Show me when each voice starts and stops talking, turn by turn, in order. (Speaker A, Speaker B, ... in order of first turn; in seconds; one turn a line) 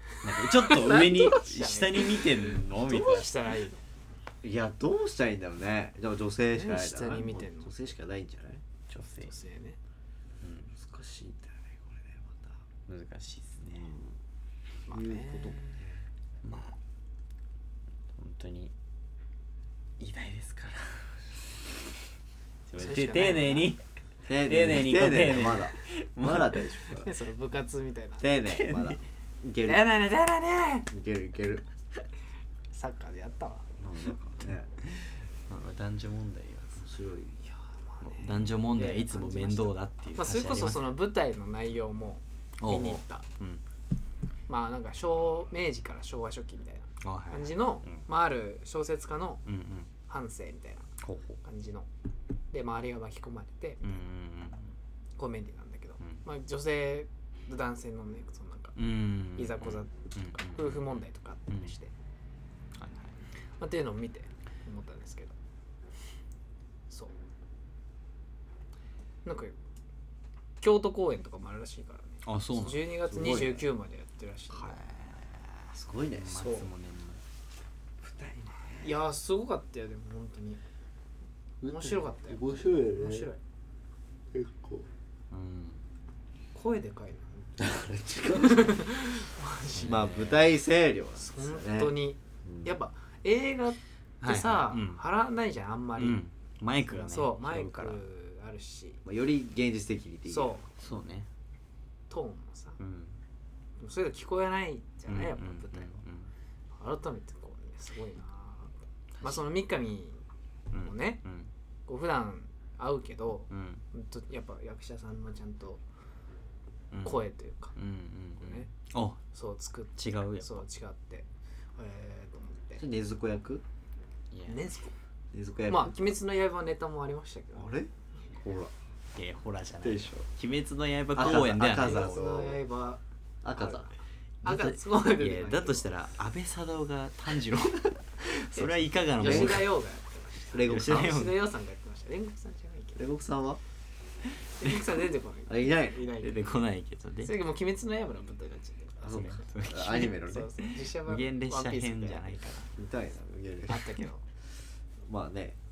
Speaker A: 0.2-3.4
Speaker B: 0.4-3.8
Speaker C: 4.4-8.6
Speaker B: 6.5-7.8
Speaker A: 8.9-9.3
Speaker B: 9.2-9.8
Speaker A: 10.4-10.7
Speaker C: 10.8-12.6
Speaker A: 12.9-14.0
Speaker B: 14.9-15.8
Speaker C: 14.9-16.0
Speaker A: 16.4-16.8
Speaker A: 18.1-18.7
Speaker A: 20.0-21.7
Speaker A: 22.7-23.8
Speaker B: 22.8-23.7
Speaker C: 24.2-27.1
Speaker A: 24.4-26.7
Speaker B: 27.0-28.3
Speaker C: 28.2-29.9
Speaker A: 28.4-29.0
Speaker B: 29.6-30.9
Speaker C: 30.9-31.7
Speaker B: 32.7-33.7
Speaker C: 33.8-34.7
Speaker A: 34.9-36.8
Speaker C: 36.8-37.4
Speaker B: 37.4-43.3
Speaker A: 38.0-41.0
Speaker A: 42.6-43.6
Speaker B: 44.5-49.4
Speaker A: 47.0-48.0
Speaker A: 49.5-49.9
Speaker B: 50.1-50.9
Speaker A: 51.0-51.4
Speaker B: 51.4-51.9
Speaker B: 52.5-54.1
Speaker A: 53.8-54.7
Speaker B: 55.2-58.8
Speaker A: 58.8-61.7
Speaker B: 59.3-61.9
Speaker A: 62.8-63.1
Speaker B: 63.6-65.3
Speaker B: 69.2-69.5
Speaker B: 70.6-74.8
Speaker A: 72.2-72.9
Speaker C: 73.1-73.7
Speaker A: 74.5-77.2
Speaker C: 75.7-76.4
Speaker B: 76.3-76.7
Speaker C: 78.0-78.9
Speaker B: 78.8-80.6
Speaker C: 81.6-83.3
Speaker B: 81.7-83.4
Speaker C: 84.3-84.9
Speaker A: 85.3-85.8
Speaker B: 86.5-90.1
Speaker C: 87.6-89.0
Speaker A: 89.7-90.5
Speaker C: 89.8-92.7
Speaker B: 91.2-96.2
Speaker A: 94.2-95.0
Speaker A: 96.0-98.0
Speaker B: 96.9-99.0
Speaker C: 99.0-100.6
Speaker B: 100.3-100.7
Speaker A: 100.8-101.3
Speaker B: 102.1-102.8
Speaker A: 102.8-103.2
Speaker B: 103.8-106.0
Speaker A: 105.1-106.3
Speaker B: 106.8-110.2
Speaker A: 109.2-109.5
Speaker A: 110.7-111.5
Speaker B: 110.8-111.2
Speaker B: 111.9-115.8
Speaker A: 113.5-113.8
Speaker A: 116.9-117.2
Speaker B: 117.0-117.8
Speaker A: 117.8-119.2
Speaker B: 118.4-118.7
Speaker B: 119.3-122.8
Speaker A: 120.0-120.6
Speaker C: 122.8-123.6
Speaker A: 124.3-124.7
Speaker B: 124.5-124.9
Speaker C: 125.3-126.0
Speaker B: 125.7-127.8
Speaker C: 127.5-128.7
Speaker A: 129.2-132.2
Speaker C: 129.8-130.3
Speaker C: 131.2-132.6
Speaker B: 131.3-133.0
Speaker C: 133.4-133.9
Speaker B: 133.6-135.9
Speaker A: 134.4-139.8
Speaker B: 138.6-143.0
Speaker C: 139.2-139.7
Speaker C: 140.5-141.3
Speaker A: 140.6-141.5
Speaker C: 143.0-143.6
Speaker B: 144.6-146.6
Speaker C: 145.5-146.1
Speaker A: 146.2-147.3
Speaker B: 147.2-149.4
Speaker C: 149.0-150.5
Speaker A: 149.1-152.7
Speaker B: 150.0-152.6
Speaker C: 152.8-153.8
Speaker B: 153.7-154.2
Speaker C: 155.0-155.6